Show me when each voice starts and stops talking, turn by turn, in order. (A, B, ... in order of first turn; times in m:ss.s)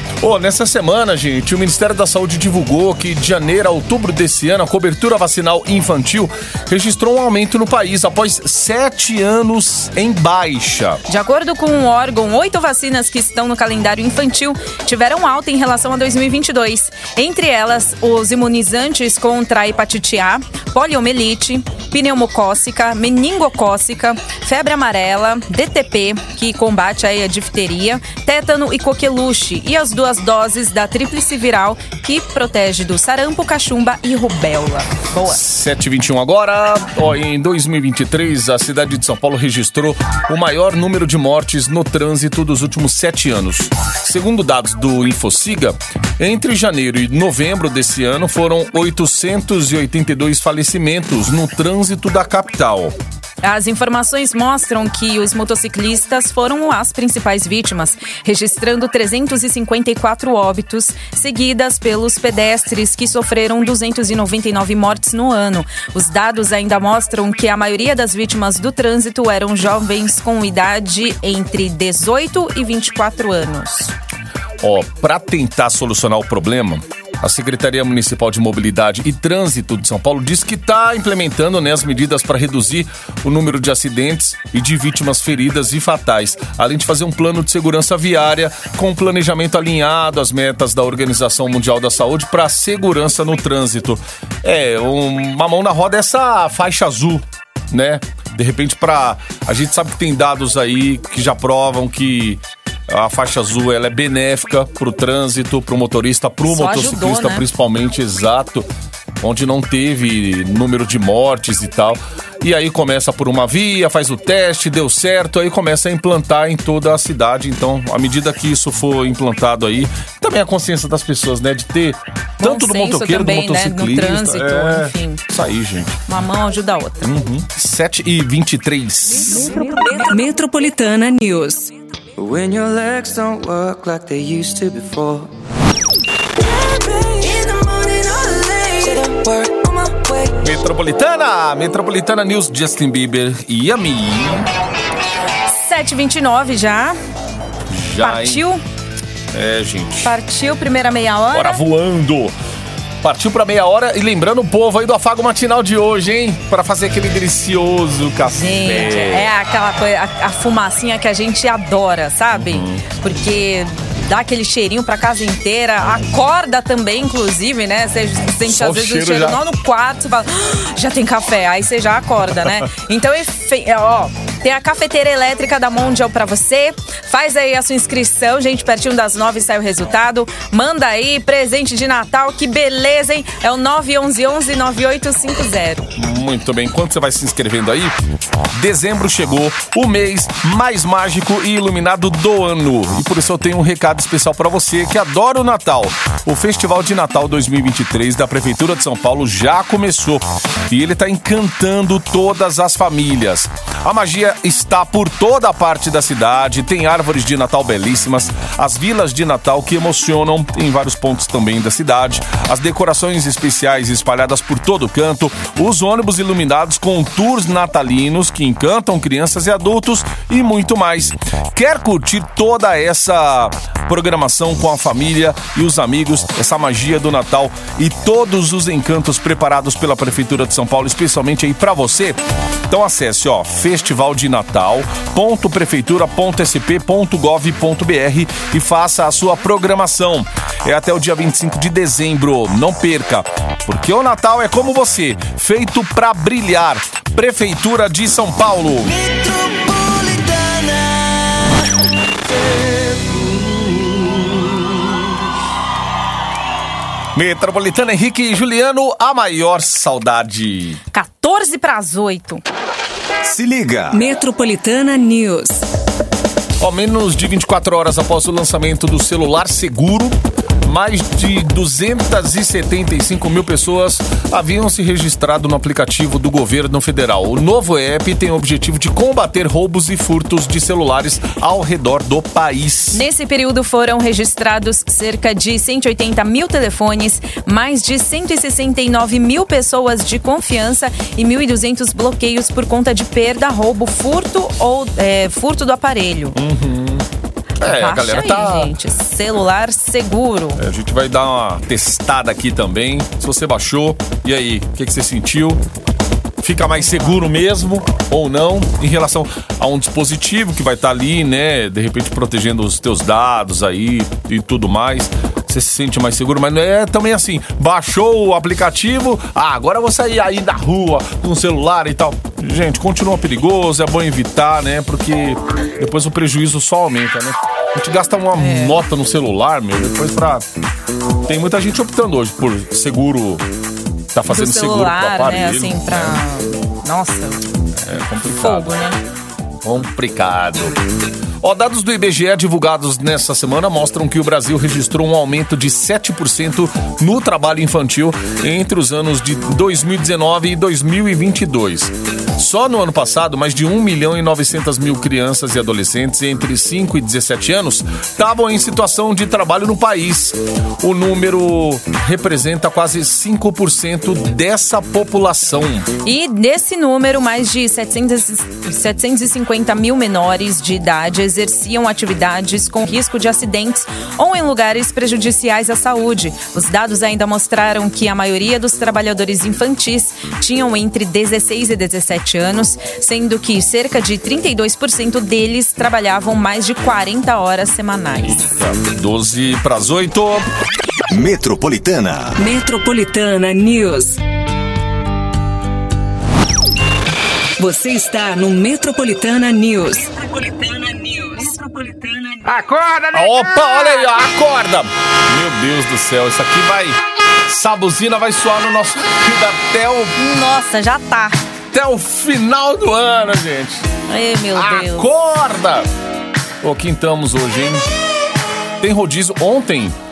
0:00.2-0:11.0 A
0:11.1-0:35.4 B
0:35.2-0:53.0 A
0:53.4-1:13.9 B
1:14.6-1:48.7 A
1:46.4-1:47.4 B
1:49.2-2:06.0 A
2:02.4-2:05.2 B
2:06.1-2:07.1 B
2:07.0-2:09.6 A
2:09.4-2:11.7 C
2:12.2-2:15.3 D
2:16.4-2:20.4 D
2:20.4-2:24.5 A
2:25.5-2:27.0 B
2:27.7-2:28.4 A
2:28.0-2:28.6 B
2:29.3-2:30.1 A
2:30.0-2:31.6 B
2:31.3-2:32.3 A
2:33.0-2:39.3 A
2:38.3-3:05.9 B
2:42.3-2:42.9 A
2:48.4-2:49.4 A
3:06.0-3:07.9 A
3:08.5-4:09.0 A
4:08.8-4:14.9 D
4:17.1-4:20.8 A
4:20.9-4:22.4 B
4:23.2-4:24.0 E
4:23.9-4:25.6 C
4:26.6-4:43.0 A
4:42.9-4:56.4 B
4:56.3-4:57.1 A
4:57.6-4:58.7 A
4:57.6-5:00.6 B
5:00.6-5:05.6 A
5:06.4-5:30.4 A
5:28.4-5:28.8 B
5:31.2-5:33.4 A
5:34.1-5:36.2 A
5:34.3-5:37.4 B
5:37.7-5:38.8 A
5:38.3-5:39.0 B
5:39.6-5:40.8 A
5:41.4-6:05.9 A
6:06.0-6:28.5 B
6:28.2-6:30.5 A
6:31.1-6:32.4 E
6:32.4-6:34.2 C
6:37.6-6:42.4 C
6:42.5-6:50.2 A
6:43.1-6:44.2 B
6:50.2-6:51.4 B
6:51.7-6:53.9 A
6:54.1-6:55.1 B
6:54.5-6:55.9 A
6:56.6-6:57.9 A
6:58.8-6:59.9 A